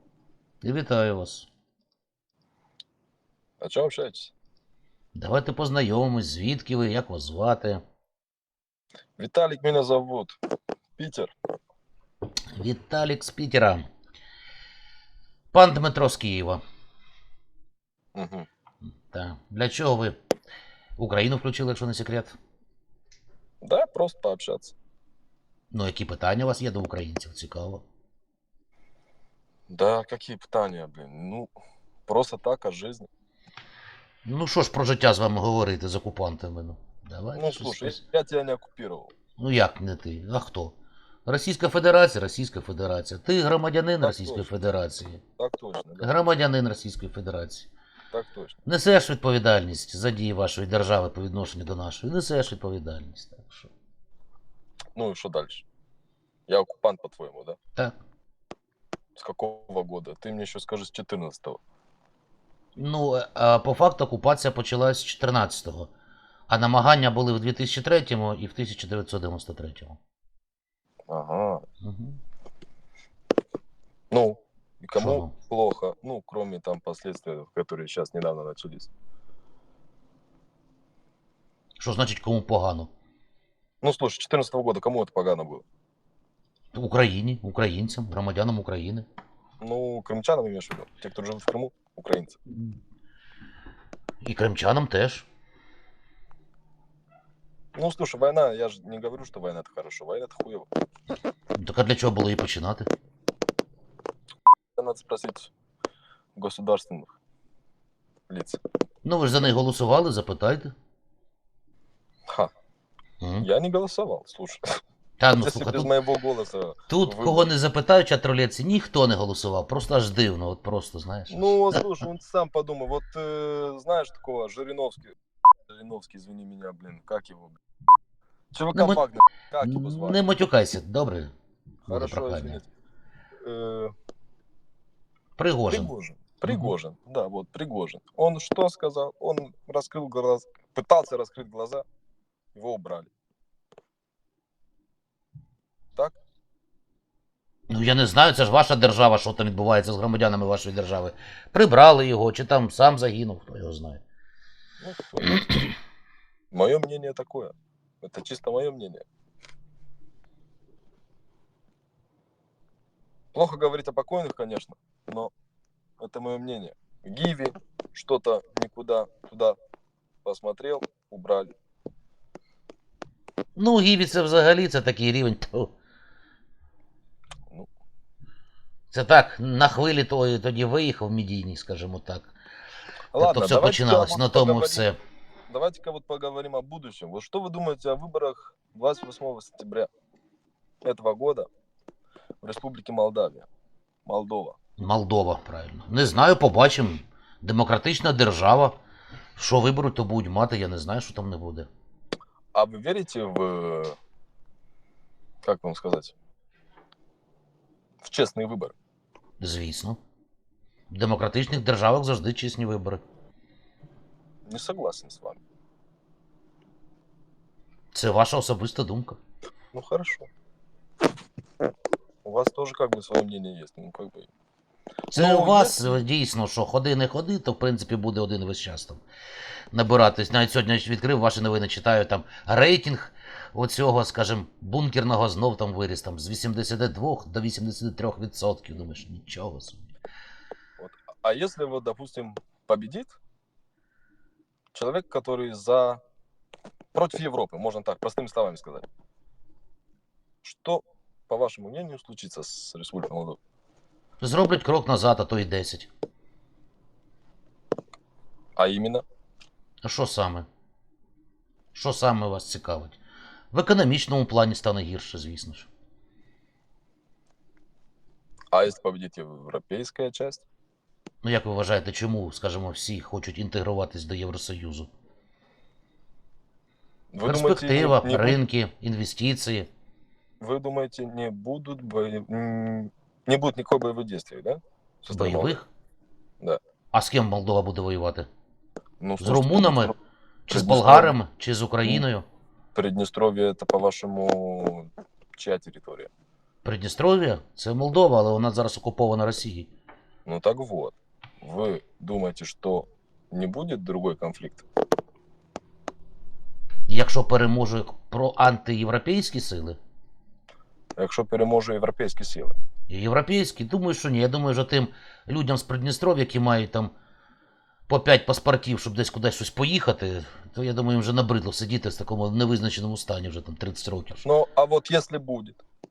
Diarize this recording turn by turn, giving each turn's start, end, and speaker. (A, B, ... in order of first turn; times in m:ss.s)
0:00.6-0:01.5 A
0:03.6-0:04.3 B
0:05.1-0:07.8 A
0:09.2-0:10.4 B
0:11.0-0:11.3 B
0:12.5-0:13.9 A
0:15.5-0:16.6 A
0:18.2-0:18.5 B
0:19.1-0:20.2 A
0:21.0-0:22.4 A
0:23.6-0:24.7 B
0:25.7-0:27.8 A
0:29.7-0:31.5 B
0:32.1-0:33.1 B
0:34.2-0:38.0 A
0:37.4-0:39.1 B
0:39.4-0:40.7 A
0:41.3-0:45.2 A
0:44.0-0:44.5 B
0:45.4-0:46.1 B
0:46.0-0:47.7 A
0:48.1-0:48.6 B
0:48.6-0:53.7 A
0:55.0-0:55.6 B
0:56.5-0:57.6 B
0:59.2-1:01.6 B
1:02.8-1:05.9 A
1:06.5-1:10.0 A
1:11.1-1:11.6 B
1:11.8-1:12.2 A
1:14.1-1:18.9 B
1:14.9-1:15.3 A
1:21.8-1:22.9 A
1:23.8-1:25.6 B
1:26.7-1:29.1 A
1:29.6-1:32.4 B
1:34.2-1:35.3 A
1:37.8-1:40.7 B
1:41.6-1:42.9 A
1:44.8-1:45.5 B
1:46.4-1:47.2 B
1:48.3-1:48.6 B
1:49.0-1:50.7 A
1:53.2-1:53.5 A
1:53.4-1:54.8 B
1:55.2-1:55.9 A
1:55.4-1:57.5 B
1:56.9-2:01.8 A
2:01.3-2:05.1 B
2:05.7-2:07.6 B
2:08.5-2:10.2 B
2:08.8-2:09.0 A
2:09.6-2:11.3 A
2:11.9-2:12.6 A
2:11.9-2:12.7 B
2:13.4-2:13.9 B
2:15.4-2:15.9 A
2:15.7-2:21.8 B
2:16.5-2:16.7 A
2:22.6-2:23.1 B
2:27.7-2:34.0 A
2:34.8-2:35.4 B
2:36.5-2:39.0 B
2:43.3-2:45.3 B
2:46.0-2:49.6 B
2:50.2-2:51.5 B
2:53.6-2:55.7 A
2:58.9-3:02.3 A
3:03.1-3:04.9 B
3:03.2-3:05.0 A
3:05.5-3:09.9 B
3:10.8-3:11.5 B
3:12.4-3:13.5 B
3:14.1-3:14.6 B
3:14.8-3:18.8 A
3:19.4-3:21.7 A
3:22.5-3:24.0 B
3:25.4-3:26.1 B
3:28.0-3:28.7 B
3:29.4-3:30.0 A
3:30.9-3:33.0 A
3:34.5-3:35.4 B
3:37.9-3:39.2 A
3:39.7-3:40.3 B
3:42.2-3:44.3 B
3:45.1-3:45.8 B
3:45.1-3:49.0 A
3:49.7-3:59.8 A
4:00.8-4:03.2 B
4:04.7-4:06.0 B
4:06.9-4:08.8 B
4:10.4-4:13.4 B
4:14.2-4:15.9 A
4:18.6-4:19.0 B
4:19.8-4:20.5 A
4:21.7-4:23.0 A
4:23.5-4:25.7 A
4:28.5-4:30.4 B
4:31.2-4:34.9 A
4:37.1-4:38.4 B
4:37.2-4:39.7 A
4:40.4-4:45.6 B
4:45.1-4:45.7 A
4:46.9-4:48.3 A
4:49.0-4:50.0 B
4:49.2-4:49.9 A
4:50.5-4:52.2 A
4:50.5-4:51.2 B
4:52.8-4:56.1 B
4:56.6-4:59.7 A
5:00.3-5:04.6 B
5:06.9-5:09.8 A
5:11.0-5:12.6 B
5:12.9-5:16.9 A
5:17.9-5:24.2 A
5:24.2-5:25.6 B